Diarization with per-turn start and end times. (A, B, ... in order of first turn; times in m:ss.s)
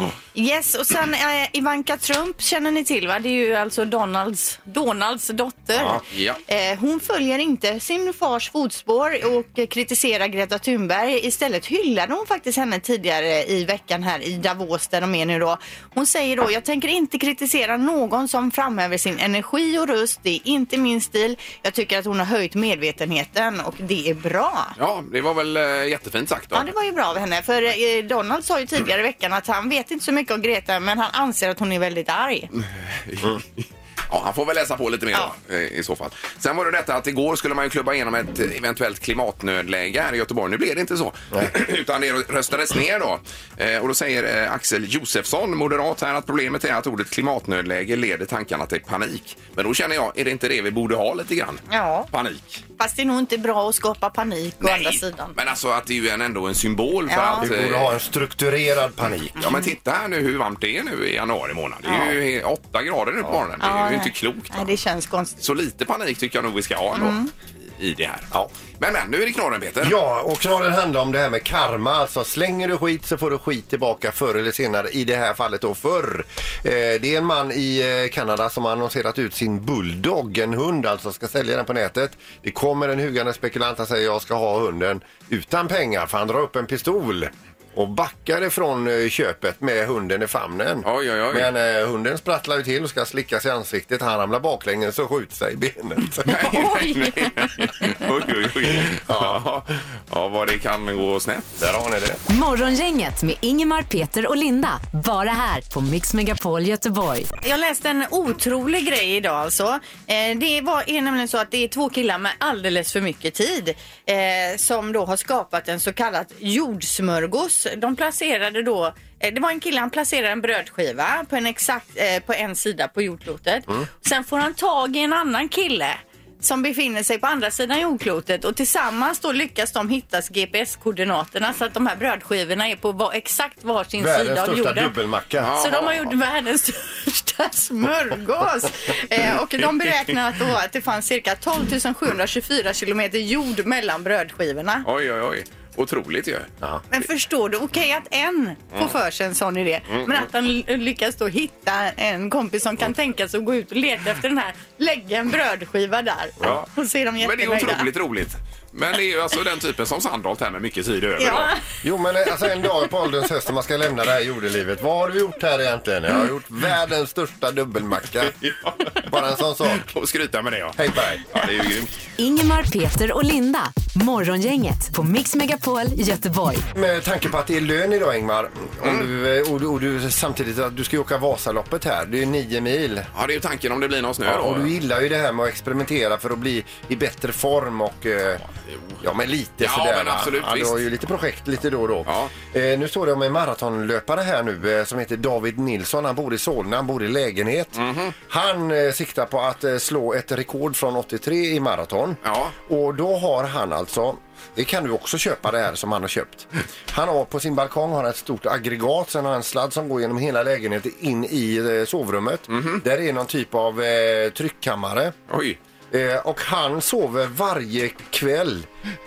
0:00.3-0:24.8 A
0:05.8-0:06.0 B
0:06.0-0:06.4 C
0:24.8-0:26.7 C
0:26.5-0:32.5 A
0:32.6-0:52.6 C
0:51.7-0:52.1 A
0:52.8-0:55.3 A
0:54.6-0:58.0 C
0:57.1-0:57.5 A
0:57.4-0:59.4 B
0:59.4-1:04.7 C
1:01.8-1:02.2 A
1:03.6-1:05.4 A
1:05.4-1:07.2 C
1:07.0-1:07.3 A
1:07.8-1:10.0 C
1:09.8-1:36.7 B
1:30.8-1:31.5 C
1:36.2-1:41.5 C
1:36.3-1:37.9 A
1:39.0-1:39.4 B
1:41.6-1:42.2 B
1:42.3-1:47.3 D
1:47.4-2:14.9 A
2:14.0-2:15.5 B
2:15.4-2:16.1 C
2:15.5-2:24.8 A
2:24.8-2:26.5 C
2:26.9-2:37.9 A
2:37.2-2:41.5 C
2:41.2-2:41.6 A
2:41.8-2:48.4 B
2:48.3-2:49.1 C
2:49.0-2:49.9 B
2:49.7-2:51.9 C
2:50.8-2:51.5 B
2:52.2-2:56.6 D
2:56.7-3:03.1 B
2:58.8-2:59.1 C
3:03.1-3:04.8 C
3:04.2-3:08.4 B
3:08.6-3:09.0 C
3:09.0-3:35.1 B
3:09.6-3:10.8 C
3:12.0-3:12.3 C
3:17.8-3:18.1 C
3:22.2-3:22.5 C
3:32.5-3:32.8 C
3:35.3-3:35.6 C
3:35.9-3:38.7 B